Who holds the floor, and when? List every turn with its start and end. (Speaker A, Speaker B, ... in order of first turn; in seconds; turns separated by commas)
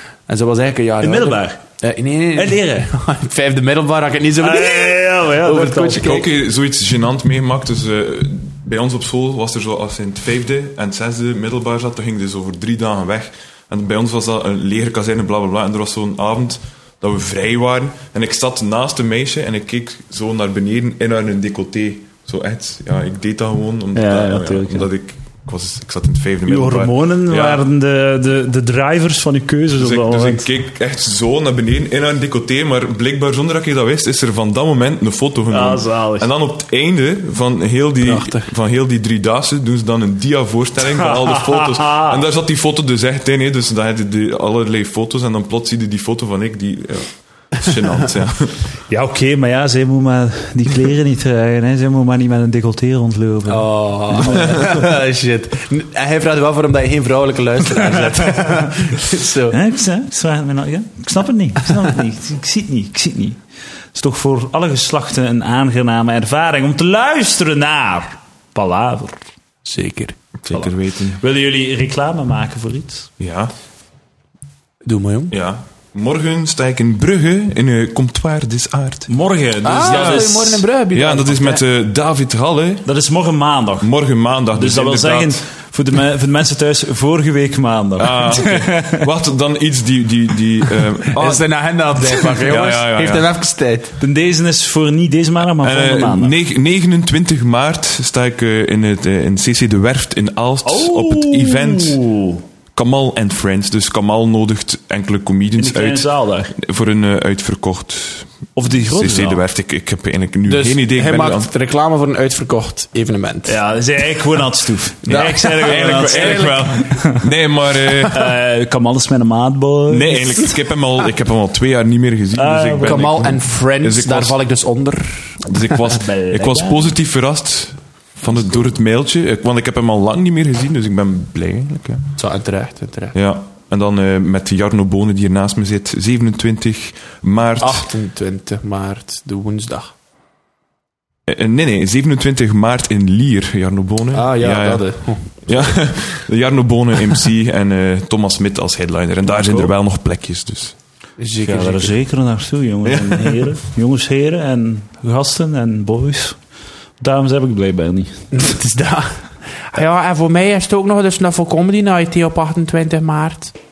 Speaker A: 0.3-6.3, Speaker B: 1.0-1.6, Speaker B: 2.4-2.9, Speaker B: 4.4-6.2, Speaker C: 5.9-27.6, Speaker B: 23.9-24.9, Speaker B: 26.5-30.5, Speaker C: 29.8-48.6, Speaker B: 35.5-36.3, Speaker A: 38.0-38.5, Speaker B: 41.0-42.2, Speaker B: 48.9-54.8, Speaker A: 53.5-59.6, Speaker B: 59.5-63.4, Speaker B: 64.0-69.2, Speaker A: 69.7-70.2, Speaker C: 70.4-71.2, Speaker B: 70.5-73.1, Speaker C: 73.2-73.5, Speaker A: 74.8-75.3, Speaker C: 75.3-79.1, Speaker B: 79.1-80.7, Speaker A: 79.6-81.6, Speaker C: 79.9-80.3, Speaker C: 80.9-82.9, Speaker B: 82.8-83.9, Speaker C: 83.8-85.4, Speaker B: 84.5-89.1, Speaker C: 88.0-91.4, Speaker A: 91.1-93.9, Speaker C: 92.4-93.3, Speaker B: 94.0-96.3, Speaker C: 95.6-102.0, Speaker B: 100.7-102.4, Speaker C: 102.7-111.5, Speaker B: 105.6-106.5, Speaker B: 108.6-109.4, Speaker A: 110.5-113.6, Speaker B: 113.5-117.3, Speaker C: 115.1-118.4, Speaker A: 115.1-116.9, Speaker B: 118.0-120.5, Speaker C: 119.9-124.4, Speaker B: 122.3-123.3, Speaker A: 122.8-125.8, Speaker C: 125.4-132.1, Speaker B: 125.9-127.0, Speaker A: 132.2-133.2, Speaker C: 133.1-137.9, Speaker A: 137.6-139.9, Speaker C: 141.3-144.8, Speaker A: 144.1-145.8, Speaker C: 145.4-150.8, Speaker B: 149.3-149.7, Speaker A: 151.2-151.9, Speaker B: 151.4-156.4, Speaker C: 152.8-153.5, Speaker B: 157.0-158.2, Speaker A: 158.3-159.2, Speaker A: 159.7-163.5